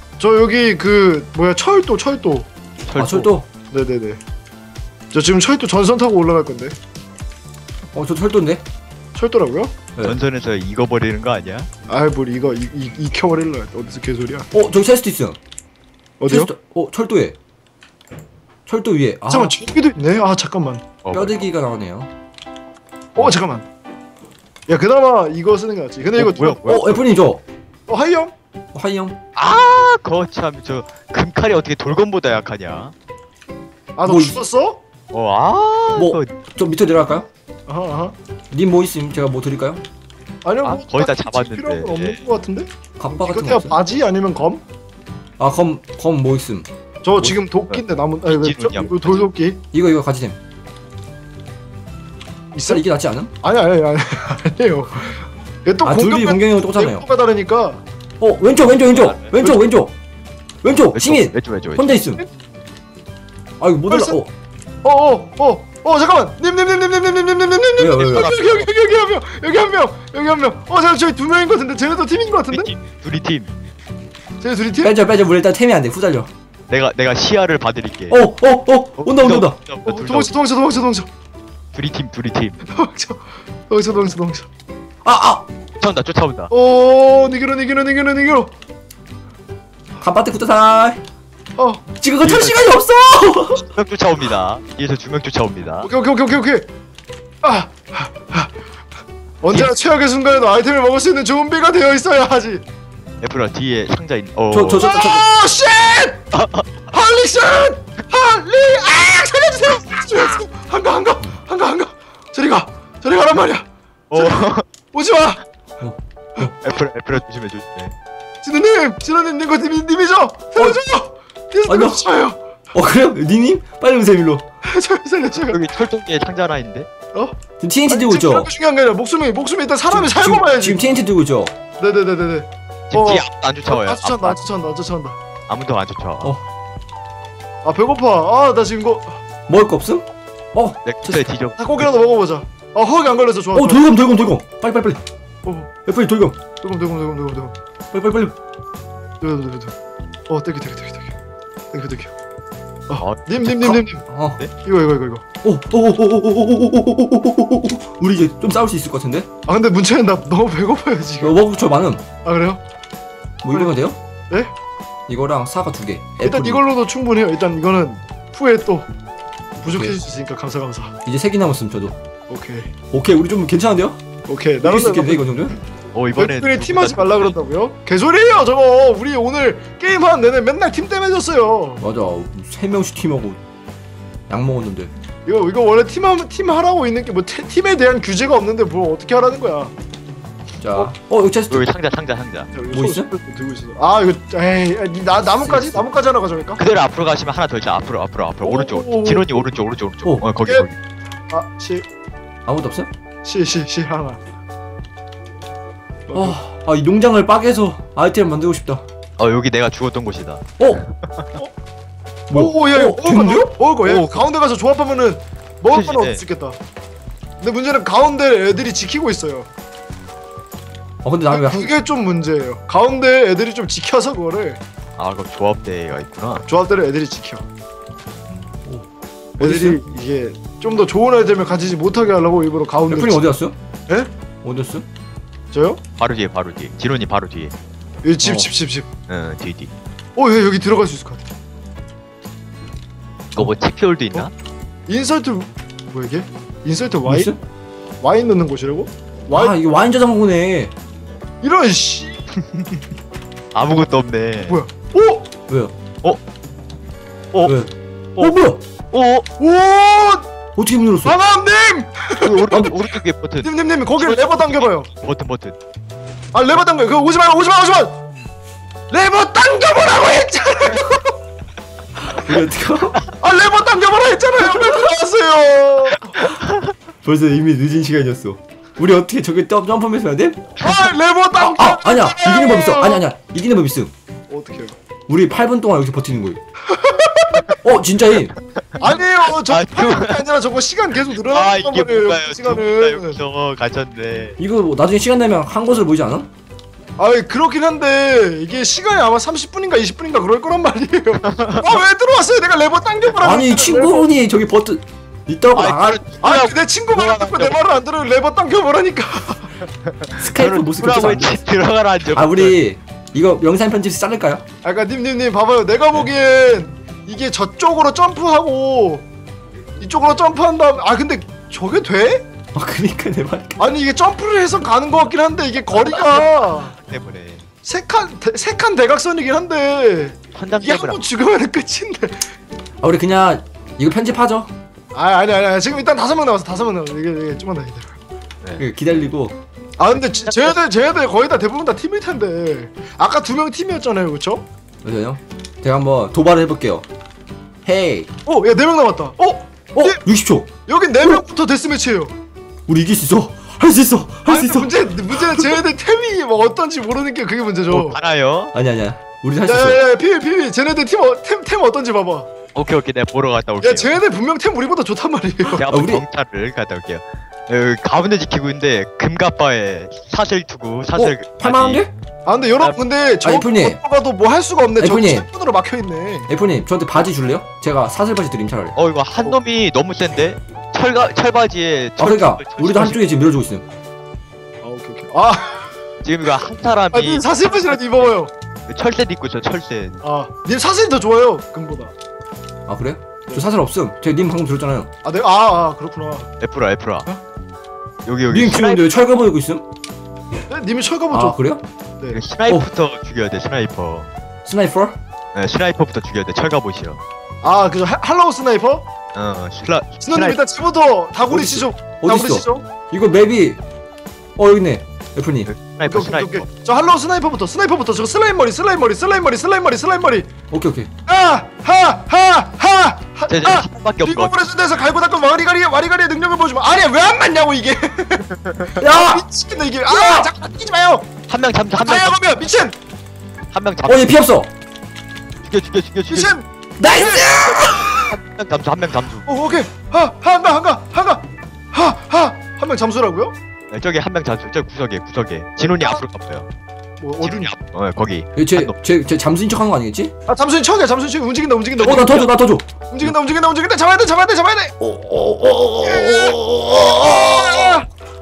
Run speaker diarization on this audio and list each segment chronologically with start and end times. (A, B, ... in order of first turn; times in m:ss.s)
0:00.2-0:02.5 A
0:02.9-0:03.3 B
0:02.9-0:03.5 C
0:03.7-0:04.2 A
0:05.1-0:06.8 A
0:07.9-0:08.6 C
0:09.1-0:09.7 A
0:10.0-0:11.7 B
0:11.9-0:14.5 A
0:14.5-0:15.4 C
0:16.2-0:16.5 A
0:16.3-0:17.4 C
0:18.6-0:19.5 C
0:19.3-0:20.9 A
0:21.0-0:21.4 B
0:21.1-0:22.1 C
0:23.2-0:23.6 A
0:24.7-0:26.7 A
0:26.2-0:27.0 B
0:26.6-0:27.4 C
0:27.9-0:28.3 A
0:28.7-0:29.2 C
0:29.4-0:32.9 B
0:34.0-0:34.8 A
0:34.0-0:34.4 C
0:35.1-0:36.3 B
0:35.9-0:37.3 C
0:37.7-0:38.1 A
0:38.5-0:39.8 C
0:40.4-0:44.6 A
0:40.6-0:42.2 B
0:43.0-0:43.8 C
0:45.4-0:46.7 C
0:47.0-0:49.6 A
0:47.7-0:49.3 B
0:49.7-0:50.4 C
0:52.5-0:52.8 A
0:52.7-0:53.3 C
0:53.4-0:57.8 A
0:55.8-0:57.0 C
0:58.2-0:59.9 C
0:58.8-0:59.5 B
1:00.6-1:02.2 C
1:00.9-1:01.9 B
1:03.6-1:04.3 C
1:03.9-1:04.2 A
1:04.8-1:12.7 A
1:07.8-1:08.3 C
1:08.1-1:08.7 B
1:12.5-1:13.5 B
1:14.4-1:14.9 A
1:14.8-1:16.3 C
1:16.7-1:18.2 B
1:18.1-1:19.6 C
1:19.0-1:20.3 B
1:19.8-1:21.1 A
1:21.7-1:22.6 B
1:22.7-1:24.5 A
1:25.0-1:25.4 C
1:25.8-1:26.5 B
1:26.5-1:28.5 A
1:30.0-1:31.0 C
1:31.6-1:31.8 A
1:32.0-1:33.6 C
1:32.2-1:32.7 B
1:33.5-1:35.9 B
1:35.8-1:36.6 A
1:37.4-1:38.5 A
1:39.4-1:42.6 A
1:43.2-1:45.0 B
1:44.5-1:45.3 C
1:44.8-1:46.2 A
1:46.3-1:46.6 B
1:46.9-1:55.4 A
1:54.1-1:54.6 B
1:55.8-1:56.5 C
1:56.6-1:57.9 B
1:58.4-2:02.4 A
2:01.7-2:02.0 C
2:02.7-2:04.4 C
2:04.6-2:05.7 A
2:05.5-2:06.9 B
2:07.6-2:08.5 C
2:07.9-2:10.8 A
2:09.9-2:11.5 C
2:11.8-2:15.2 A
2:12.9-2:14.4 B
2:15.5-2:16.3 B
2:17.6-2:19.2 A
2:19.5-2:21.2 C
2:20.8-2:21.9 B
2:21.6-2:24.3 A
2:23.5-2:25.0 C
2:25.4-2:25.7 A
2:25.8-2:26.4 C
2:26.6-2:27.6 A
2:27.9-2:28.4 C
2:29.2-2:29.8 A
2:30.3-2:31.1 A
2:31.7-2:32.1 A
2:32.9-2:34.0 A
2:33.0-2:33.8 B
2:34.1-2:34.4 C
2:34.6-2:35.2 A
2:35.4-2:39.3 C
2:39.4-2:41.4 A
2:41.2-2:42.0 C
2:42.2-2:42.6 A
2:43.4-2:44.0 C
2:45.1-2:46.6 C
2:46.2-2:48.9 A
2:49.6-2:50.9 A
2:49.6-2:50.0 C
2:51.0-2:52.0 C
2:52.3-2:52.7 A
2:52.9-2:54.0 C
2:54.3-2:55.3 A
2:54.6-2:55.6 C
2:55.9-2:57.3 B
2:56.2-3:01.8 A
3:01.8-3:03.4 C
3:04.3-3:04.9 C
3:05.2-3:09.7 A
3:10.6-3:11.7 C
3:11.5-3:12.5 B
3:12.5-3:16.6 A
3:12.7-3:13.1 C
3:15.2-3:15.8 C
3:16.6-3:20.7 B
3:18.4-3:19.5 A
3:21.3-3:21.8 A
3:22.4-3:22.9 C
3:23.2-3:24.2 A
3:26.1-3:26.4 A
3:26.1-3:28.8 C
3:29.2-3:31.3 B
3:32.3-3:33.5 C
3:32.3-3:36.6 A
3:33.8-3:34.2 B
3:35.7-3:36.2 B
3:37.4-3:39.5 A
3:41.0-3:41.7 C
3:41.3-3:44.6 A
3:45.0-3:46.4 B
3:46.4-3:47.4 A
3:49.4-3:53.3 A
3:49.4-3:49.8 C
3:52.9-3:53.6 C
3:54.4-3:54.8 C
3:55.5-3:55.8 A
3:56.0-3:57.5 B
3:58.0-3:58.9 A
3:58.2-3:58.5 C
3:59.1-3:59.7 B
4:00.2-4:01.2 A
4:03.4-4:04.3 B
4:04.9-4:07.3 A
4:07.0-4:07.4 C
4:08.0-4:09.6 A
4:09.3-4:10.7 C
4:11.4-4:12.2 A
4:13.5-4:14.6 B
4:14.4-4:15.3 A
4:15.5-4:15.7 C
4:17.4-4:18.6 C
4:18.9-4:19.2 B
4:19.4-4:20.3 A
4:20.6-4:21.2 C
4:21.0-4:22.8 A
4:22.2-4:25.6 B
4:23.4-4:24.9 A
4:26.3-4:28.0 A
4:28.9-4:31.1 A
4:32.0-4:33.0 C
4:33.2-4:36.2 A
4:37.0-4:40.5 C
4:40.6-4:43.0 A
4:41.4-4:43.9 C
4:44.3-4:44.7 A
4:45.1-4:46.4 C
4:46.6-4:47.5 A
4:47.6-4:48.3 C
4:48.6-4:50.3 B
4:48.8-4:53.2 A
4:51.1-4:54.4 B
4:54.4-4:56.3 C
4:57.0-5:04.1 A
5:01.3-5:01.6 B
5:03.2-5:06.0 C
5:05.5-5:07.6 B
5:06.2-5:09.5 A
5:09.8-5:12.6 B
5:10.2-5:11.5 C
5:12.1-5:14.4 C
5:14.6-5:19.1 A
5:19.8-5:22.2 A
5:22.5-5:23.7 C
5:23.6-5:26.7 A
5:25.8-5:27.4 B
5:27.6-5:32.3 A
5:30.3-5:31.0 B
5:32.8-5:34.5 C
5:34.9-5:37.9 A
5:38.6-5:39.4 C
5:39.8-5:44.4 A
5:40.2-5:40.6 B
5:44.8-5:46.8 C
5:47.6-5:48.1 C
5:48.2-5:50.0 A
5:49.7-5:50.5 C
5:50.6-5:52.1 A
5:52.7-5:55.5 C
5:54.3-5:58.0 A
5:57.7-5:58.5 B
5:58.5-5:59.8 C
5:59.4-6:02.3 A
6:02.5-6:04.0 B
6:03.6-6:05.6 A
6:05.6-6:11.8 B
6:05.7-6:06.0 C
6:10.9-6:11.9 C
6:12.2-6:16.3 A
6:13.2-6:13.8 C
6:14.8-6:15.3 C
6:16.3-6:18.8 C
6:18.8-6:23.1 B
6:22.0-6:23.6 C
6:24.6-6:25.7 A
6:26.0-6:27.8 B
6:26.9-6:28.3 A
6:28.7-6:30.0 B
6:30.0-6:31.9 A
6:32.7-6:34.9 C
6:35.0-6:36.3 A
6:36.4-6:37.1 B
6:38.0-6:38.8 B
6:38.3-6:39.6 C
6:40.5-6:41.4 A
6:41.1-6:41.6 C
6:42.1-6:44.1 B
6:44.4-6:45.0 C
6:45.3-6:47.0 B
6:47.4-6:48.8 A
6:49.1-6:50.4 B
6:50.0-6:52.6 A
6:51.3-6:53.6 C
6:54.4-6:55.5 C
6:55.5-6:56.5 B
6:55.8-7:00.3 A
7:00.5-7:00.9 C
7:01.1-7:11.1 A
7:03.3-7:04.3 B
7:08.8-7:09.2 C
7:09.9-7:10.3 C
7:11.3-7:12.2 B
7:11.8-7:12.7 A
7:13.5-7:14.2 B
7:13.8-7:14.5 C
7:15.4-7:16.3 B
7:16.1-7:18.0 A
7:16.8-7:18.0 C
7:17.1-7:19.3 B
7:19.2-7:23.3 A
7:23.7-7:26.5 B
7:27.0-7:27.5 A
7:27.2-7:28.7 B
7:28.4-7:30.1 C
7:30.3-7:32.3 A
7:31.8-7:32.7 C
7:31.8-7:32.2 B
7:32.9-7:34.7 A
7:34.8-7:37.8 C
7:35.8-7:36.4 A
7:37.0-7:37.8 A